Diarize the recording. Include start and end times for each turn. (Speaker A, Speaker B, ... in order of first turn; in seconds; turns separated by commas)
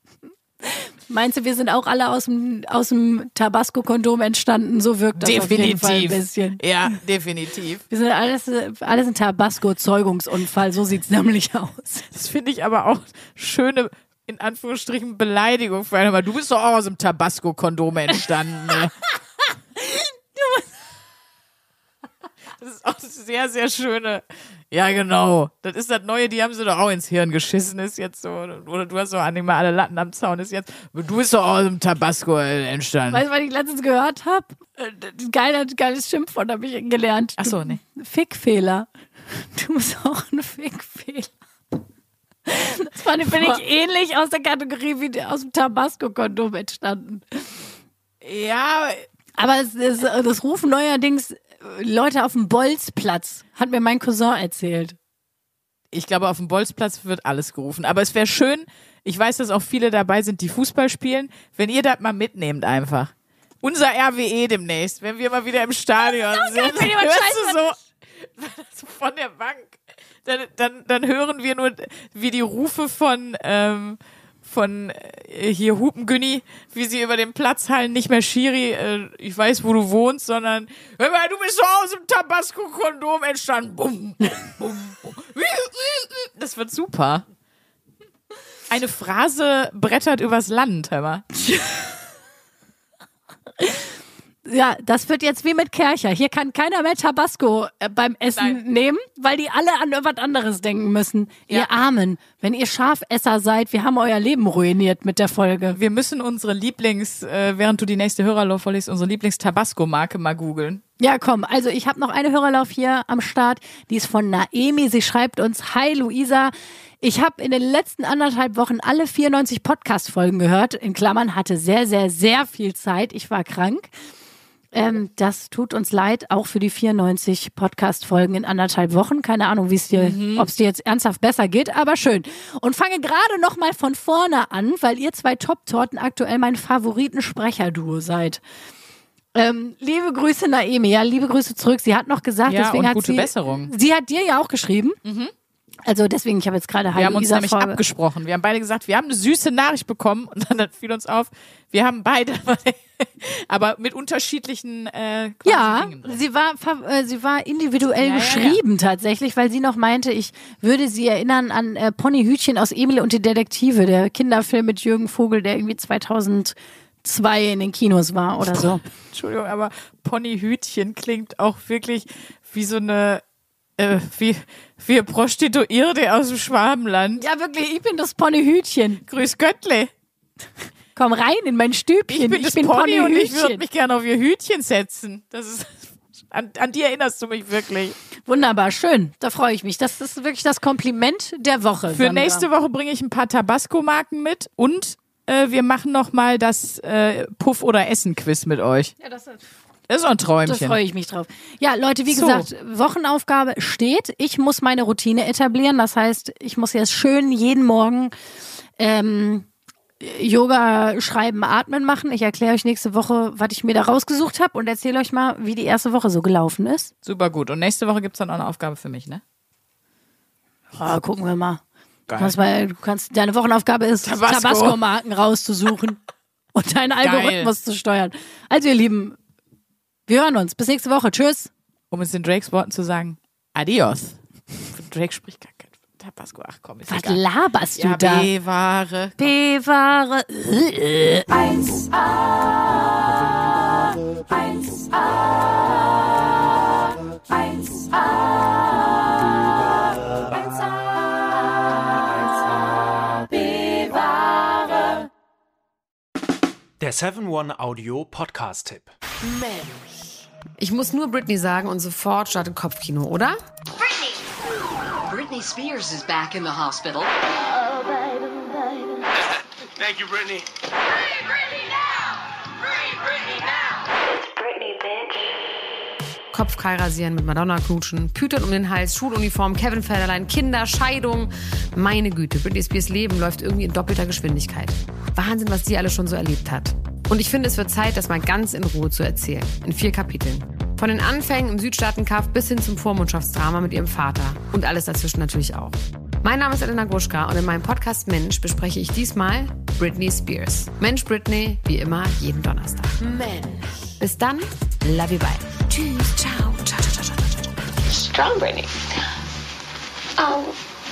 Speaker A: 0.6-6.6, Speaker B: 5.2-7.8, Speaker A: 7.9-12.1, Speaker B: 12.1-18.9, Speaker A: 19.8-20.7, Speaker B: 22.6-33.2, Speaker A: 33.1-41.4, Speaker B: 37.4-37.8, Speaker A: 42.5-47.5, Speaker B: 43.2-43.6, Speaker B: 48.2-49.0, Speaker A: 49.4-55.0, Speaker B: 55.9-87.2, Speaker A: 66.1-67.7, Speaker B: 88.7-91.2, Speaker A: 91.5-91.9, Speaker A: 93.6-93.9, Speaker A: 94.5-105.8, Speaker B: 105.7-110.8, Speaker A: 111.0-123.9, Speaker A: 124.7-138.4, Speaker B: 129.9-130.5, Speaker A: 139.3-145.0, Speaker B: 142.5-143.7, Speaker B: 145.0-145.3, Speaker A: 145.9-147.8, Speaker B: 146.9-156.2, Speaker A: 155.4-168.8, Speaker B: 158.0-158.6, Speaker B: 168.5-173.2, Speaker B: 173.8-177.2, Speaker A: 177.2-179.0, Speaker B: 179.1-179.9, Speaker A: 181.0-183.6, Speaker B: 182.1-188.0, Speaker A: 188.3-192.5, Speaker B: 191.9-198.9, Speaker A: 199.0-199.4, Speaker B: 199.9-200.8, Speaker A: 200.4-208.1, Speaker B: 202.1-202.5, Speaker A: 208.8-209.5, Speaker A: 210.0-216.9, Speaker B: 217.0-219.2, Speaker A: 220.8-221.6, Speaker B: 222.1-222.3, Speaker A: 222.2-226.0, Speaker B: 224.0-224.8, Speaker A: 226.6-229.2, Speaker B: 227.0-227.5, Speaker A: 230.1-231.5, Speaker B: 231.9-234.2, Speaker B: 234.7-237.2, Speaker A: 236.9-238.3, Speaker B: 237.8-239.3, Speaker A: 239.2-240.9, Speaker C: 256.8-258.9, Speaker D: 259.4-259.8, Speaker E: 260.6-263.4, Speaker D: 265.0-267.1, Speaker F: 272.8-275.3, Speaker E: 276.3-303.2, Speaker E: 304.0-307.4, Speaker F: 307.8-308.8, Speaker F: 310.2-310.6